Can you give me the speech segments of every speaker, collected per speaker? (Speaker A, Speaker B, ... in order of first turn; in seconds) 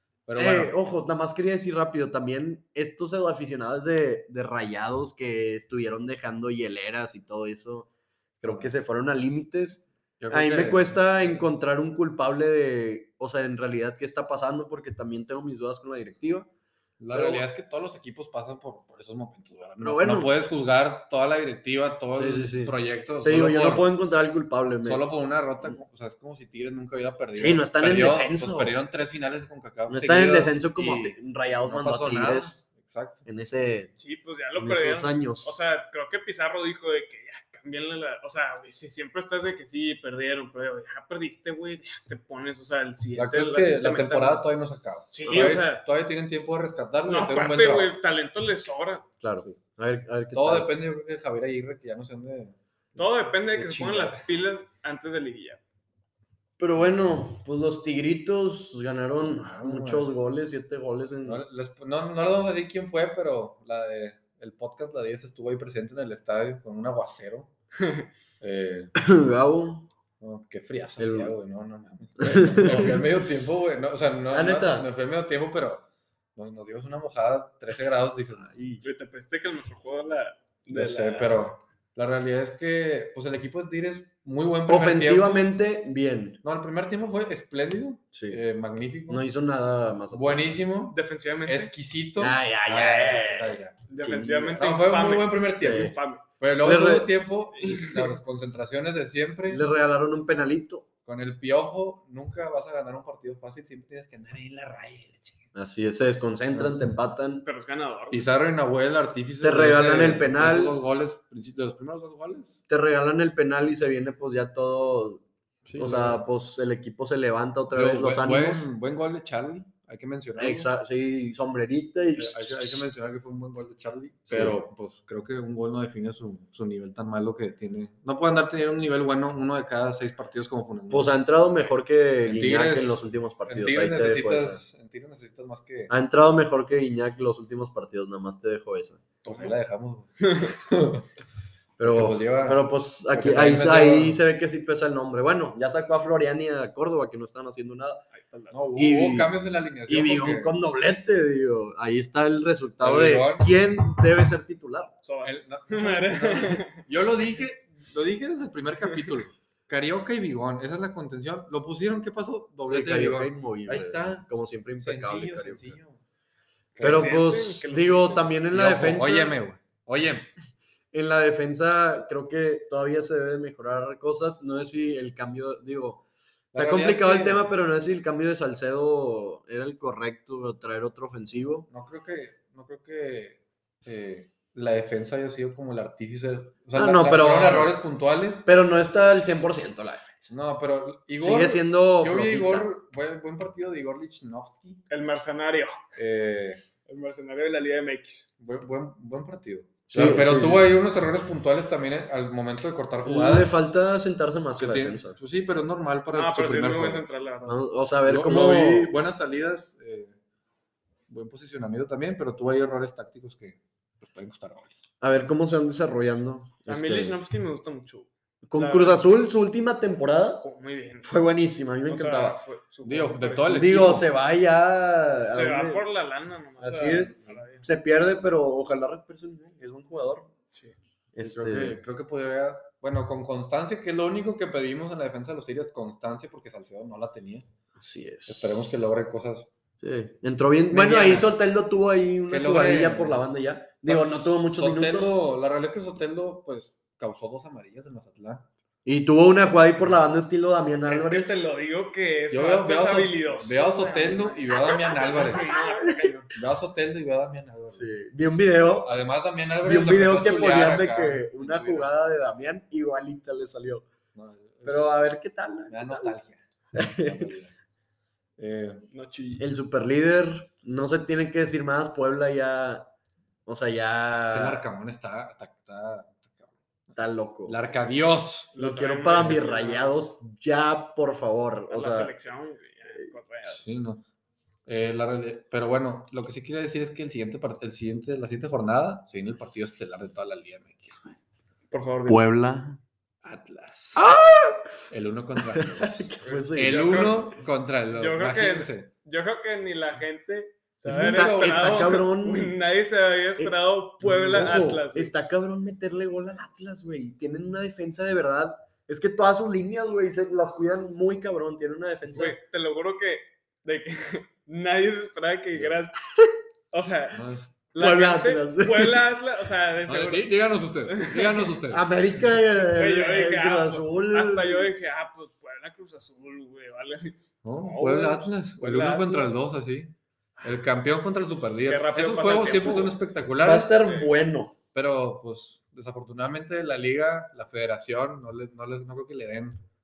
Speaker A: 0.2-0.7, 8.4-8.7, 10.2-11.5, 17.0-23.9, 24.8-33.2, 43.1-47.9, 50.3-53.0, 59.2-60.1, 61.2-67.5, 68.4-68.9, 70.2-78.5, 80.7-85.5, 86.4-89.2, 90.1-93.8, 94.5-99.7, 101.0-105.4, 108.1-112.6, 115.7-116.2, 117.7-120.7, 122.2-131.1, 132.2-135.9, 139.2-141.1, 141.8-144.2, 148.5-150.5, 152.8-153.6, 155.2-164.3, 164.8-166.0, 166.7-167.1, 168.5-170.3, 176.5-177.5, 181.7-188.4, 190.3-194.8, 195.9-196.6, 198.4-203.5, 204.6-207.1, 208.1-210.1, 211.1-214.8, 222.8-224.1, 231.2-237.4, 238.3-239.5, 240.7-241.4, 242.3-243.2, 243.8-248.5, 252.3-255.5, 256.3-257.9, 258.7-261.9, 264.1-265.0, 265.7-267.5, 268.4-268.9, 274.3-276.5, 277.5-278.5, 283.5-284.0, 284.6-291.1, 293.2-294.1, 294.9-298.9, 300.9-301.6, 315.5-315.8, 317.1-317.5, 319.9-321.8, 327.4-333.8, 334.7-339.6
Speaker B: 0.3-7.9, 8.4-16.5, 17.1-17.4, 19.8-20.3, 22.1-25.1, 27.4-28.7, 29.9-32.5, 33.2-33.9, 34.5-35.5, 49.2-50.7, 53.5-54.2, 56.6-61.4, 69.0-69.9, 71.0-71.3, 72.2-73.0, 74.3-74.9, 78.4-78.8, 84.7-86.4, 88.1-88.4, 89.1-90.5, 92.2-94.6, 95.6-96.0, 96.6-97.1, 99.5-100.8, 105.5-107.5, 109.4-110.8, 112.7-115.2, 115.8-118.7, 120.4-122.8, 124.3-124.6, 130.9-134.6, 135.9-139.0, 141.8-148.0, 148.8-149.3, 149.9-154.9, 162.7-165.8, 166.8-169.3, 170.9-176.0, 176.5-181.7, 186.7-187.7, 188.4-190.3, 191.2-192.7, 199.9-200.7, 203.0-205.2, 207.5-208.9, 215.0-217.2, 218.4-220.4, 221.0-222.4, 223.5-225.8, 226.6-230.3, 231.1-231.8, 237.8-238.5, 239.8-245.2, 248.8-251.4, 254.5-256.1, 257.7-258.9, 259.6-263.9, 264.6-266.1, 266.7-267.3, 269.4-272.9, 273.4-274.6, 276.9-277.6, 278.6-282.1, 292.1-292.8, 293.9-294.7, 295.4-297.2, 300.9-302.5, 303.4-312.4, 317.8-319.0, 321.7-324.7, 333.4-334.6
Speaker C: 34.0-44.4, 45.1-45.8, 47.1-49.1, 53.0-55.6, 67.8-68.1, 78.8-81.4, 90.9-91.7, 93.9-96.2, 97.5-98.1, 107.4-108.2, 139.2-139.5, 148.1-148.7, 155.0-156.8, 166.8-168.4, 194.9-195.8, 196.8-198.3, 206.1-207.6, 216.7-219.1, 220.4-221.1, 221.9-223.7, 225.3-227.7, 250.9-256.3, 268.9-269.4, 278.5-280.0, 281.7-283.8, 291.7-292.2, 296.2-297.4, 297.9-305.1, 312.1-316.0, 316.7-321.6, 322.5-329.3, 331.6-333.0, 333.8-334.1